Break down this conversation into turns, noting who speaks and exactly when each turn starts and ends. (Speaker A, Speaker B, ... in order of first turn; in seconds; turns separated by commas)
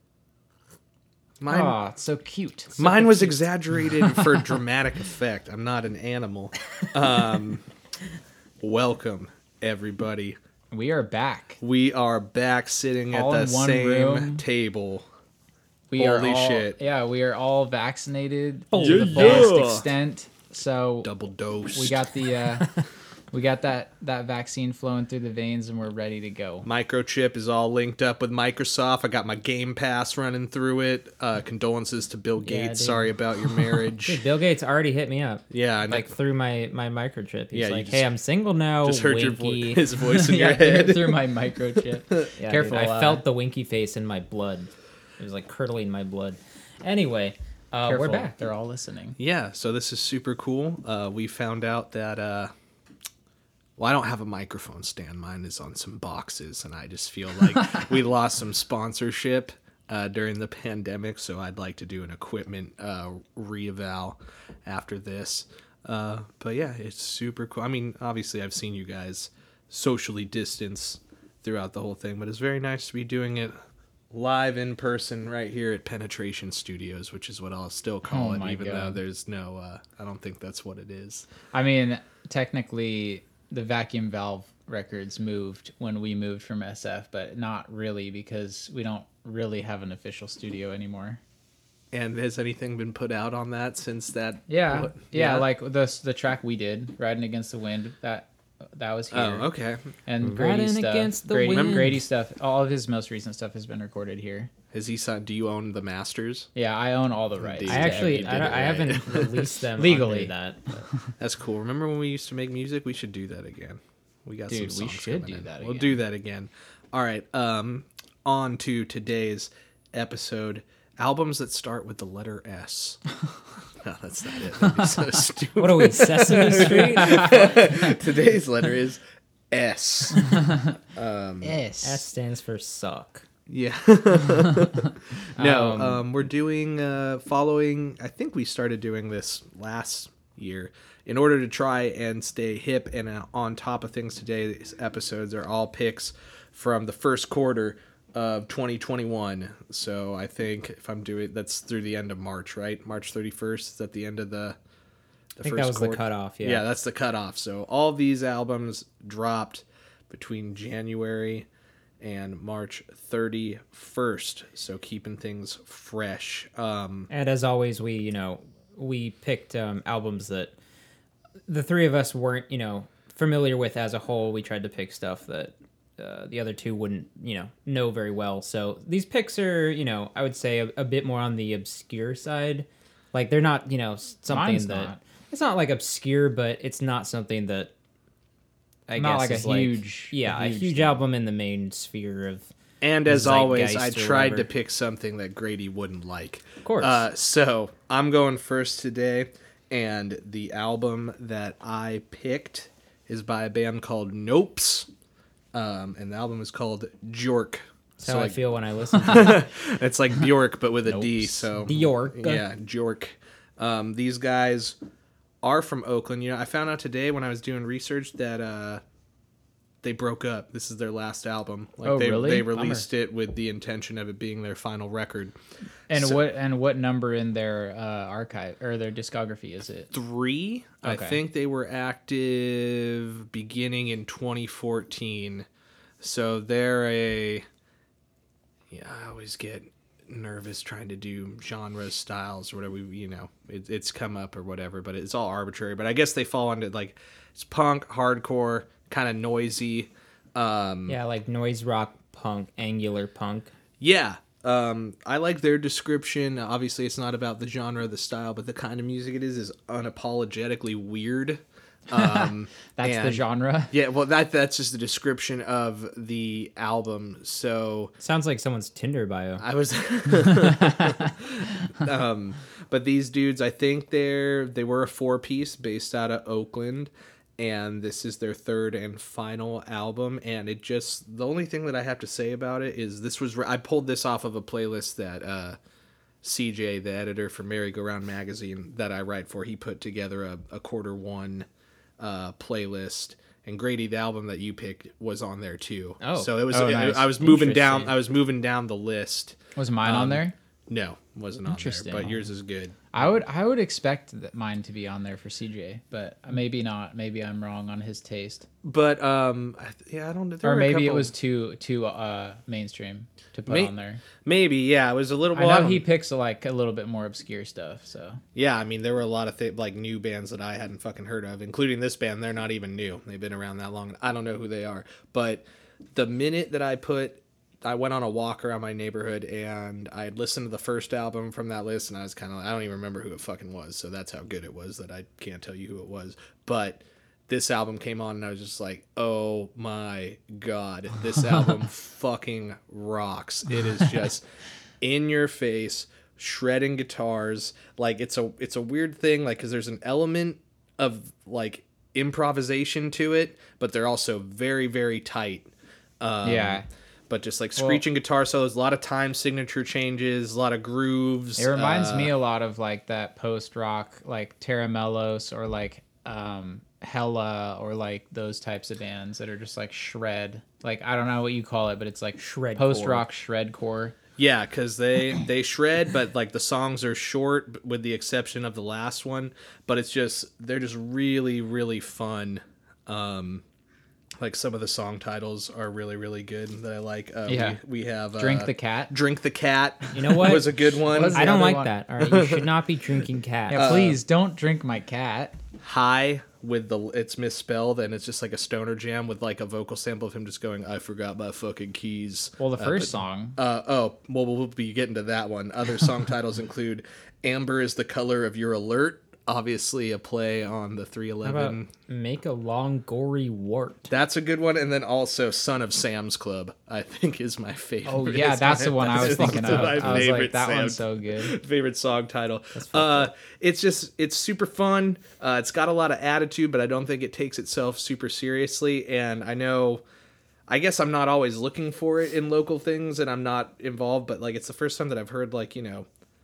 Speaker A: 1.4-1.8, Speaker B: 1.5-3.4, Speaker A: 2.8-7.7, Speaker B: 4.0-4.4, Speaker A: 8.6-10.4, Speaker B: 10.7-11.6, Speaker A: 11.6-15.1, Speaker B: 13.1-14.4, Speaker B: 15.9-21.1, Speaker A: 15.9-16.8, Speaker A: 18.7-19.9, Speaker C: 18.8-19.4, Speaker A: 21.0-22.0, Speaker B: 21.7-26.7, Speaker A: 26.6-34.2, Speaker C: 32.4-33.1, Speaker C: 34.0-39.8, Speaker A: 35.5-36.1, Speaker A: 37.5-38.1, Speaker A: 38.8-42.3, Speaker B: 40.1-43.2, Speaker C: 42.4-48.4, Speaker B: 47.8-49.2, Speaker A: 49.2-52.5, Speaker A: 53.8-73.6, Speaker A: 74.1-81.3, Speaker B: 78.1-79.0, Speaker B: 81.5-91.2, Speaker A: 91.9-95.5, Speaker B: 94.5-99.5, Speaker A: 99.1-99.8, Speaker B: 100.1-104.5, Speaker C: 100.2-101.9, Speaker A: 101.5-102.0, Speaker A: 104.7-106.5, Speaker B: 106.5-108.8, Speaker A: 107.4-109.5, Speaker C: 107.7-110.9, Speaker B: 109.8-110.3, Speaker A: 111.2-123.0, Speaker B: 114.5-116.0, Speaker A: 123.8-130.3, Speaker B: 124.6-125.0, Speaker C: 125.6-127.3, Speaker A: 130.9-131.6, Speaker B: 131.4-132.0, Speaker C: 131.8-133.2, Speaker A: 133.5-154.6, Speaker C: 135.4-136.0, Speaker A: 155.4-161.5, Speaker C: 155.4-156.6, Speaker A: 162.0-167.1, Speaker C: 167.1-170.6, Speaker C: 171.5-187.7, Speaker B: 184.3-185.0, Speaker C: 188.9-192.5, Speaker B: 189.0-191.0, Speaker A: 192.8-204.9, Speaker C: 193.1-194.5, Speaker C: 196.6-197.1, Speaker A: 205.5-214.8, Speaker C: 208.0-209.4, Speaker B: 210.9-211.7, Speaker C: 211.7-212.4, Speaker A: 215.4-218.8, Speaker A: 219.8-225.3, Speaker B: 221.8-222.9, Speaker B: 225.9-229.9, Speaker A: 225.9-226.2, Speaker A: 229.9-235.5, Speaker B: 230.8-231.2, Speaker A: 236.0-237.5, Speaker A: 238.7-251.0, Speaker C: 250.9-253.5, Speaker A: 253.8-267.9, Speaker B: 261.9-263.7, Speaker C: 268.0-269.4, Speaker A: 269.4-285.6, Speaker A: 286.2-291.5, Speaker A: 292.0-302.9, Speaker B: 296.1-298.0, Speaker B: 299.6-300.4, Speaker B: 301.5-302.3, Speaker B: 302.9-308.5, Speaker A: 308.6-311.1, Speaker B: 310.4-314.0, Speaker A: 313.5-313.7, Speaker A: 314.2-315.8, Speaker B: 315.3-318.2, Speaker A: 318.4-344.2, Speaker A: 344.8-362.1, Speaker B: 356.2-356.7, Speaker B: 361.4-374.0, Speaker C: 372.2-373.1, Speaker A: 374.2-383.4, Speaker A: 384.2-391.5, Speaker B: 387.3-387.6, Speaker B: 388.2-388.9, Speaker C: 389.9-390.6, Speaker B: 390.8-391.7, Speaker C: 391.1-393.8, Speaker A: 392.0-392.5, Speaker B: 393.5-395.4, Speaker A: 393.5-394.0, Speaker A: 395.6-411.7, Speaker B: 402.4-403.4, Speaker C: 411.2-413.9, Speaker A: 413.9-429.8, Speaker B: 417.9-421.4, Speaker C: 418.9-420.1, Speaker C: 422.6-423.1, Speaker A: 430.5-435.9